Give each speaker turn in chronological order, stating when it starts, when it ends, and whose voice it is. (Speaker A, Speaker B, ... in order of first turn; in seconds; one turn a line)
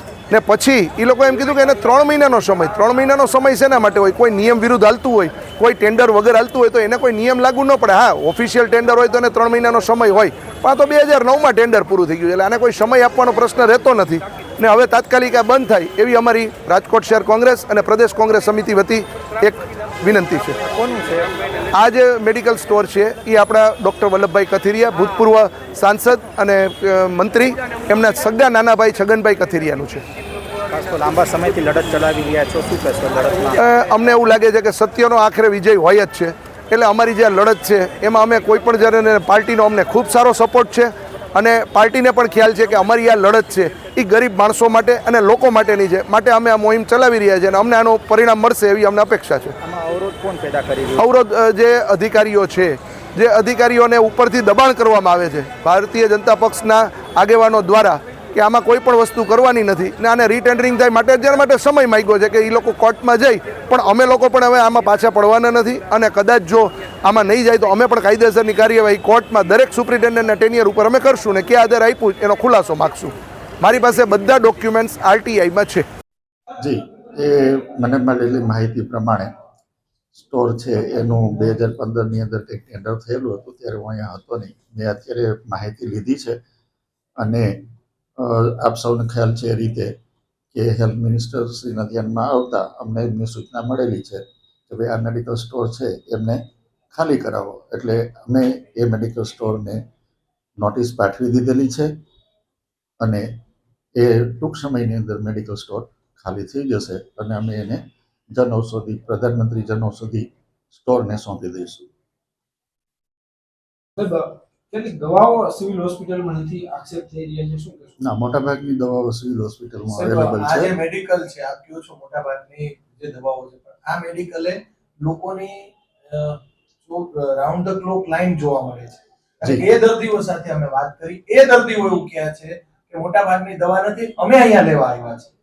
Speaker A: 0.3-20.6
Speaker B: 20.6-21.3
Speaker A: 21.7-30.0
Speaker B: 30.7-33.6
Speaker A: 33.6-49.5
Speaker B: 49.6-51.1
Speaker A: 51.0-75.9
Speaker C: 76.6-79.3
Speaker C: 80.1-86.4
Speaker C: 87.2-87.6
Speaker C: 88.2-89.9
Speaker C: 90.5-96.4
Speaker C: 96.9-99.8
Speaker C: 100.6-101.9
Speaker C: 103.0-103.2
Speaker C: 104.0-107.8
Speaker C: 108.3-111.9
Speaker D: 114.0-118.0
Speaker C: 118.0-120.7
Speaker E: 119.9-135.3